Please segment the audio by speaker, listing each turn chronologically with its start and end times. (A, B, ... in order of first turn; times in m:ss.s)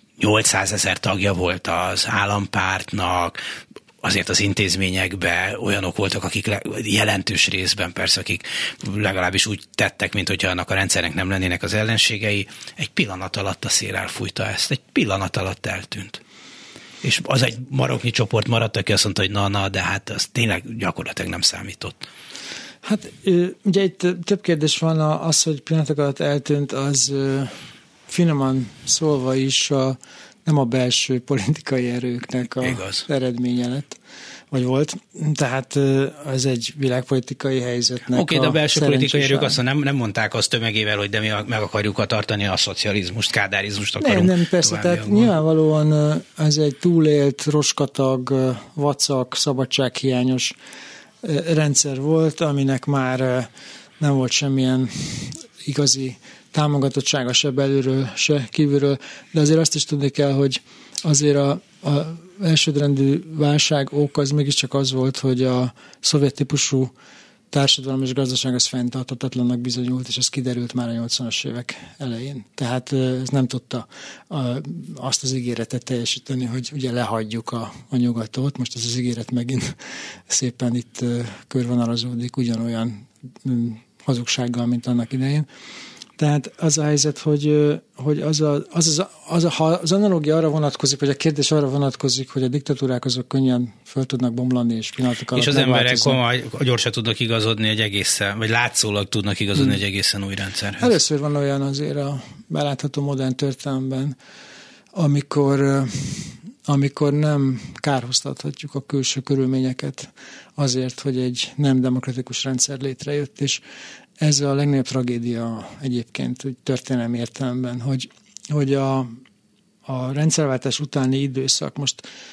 0:00.2-0:03.4 A
0:04.0-0:16.2 A
0:17.0-0:22.1 A
0:22.8-0:27.6 B
0:28.1-0:34.0 B
0:32.6-0:33.0 A
0:34.5-0:39.6 B
0:38.1-0:45.3 A
0:44.0-0:50.6 B
0:51.2-0:53.5 B
0:54.0-1:06.9 B
1:07.5-1:19.8 B
1:20.3-1:25.5 B
1:26.2-1:36.2 B
1:35.4-1:40.9 A
1:40.8-1:44.2 B
1:45.0-1:53.6 B
1:54.2-1:59.2 B
1:59.9-2:02.1 B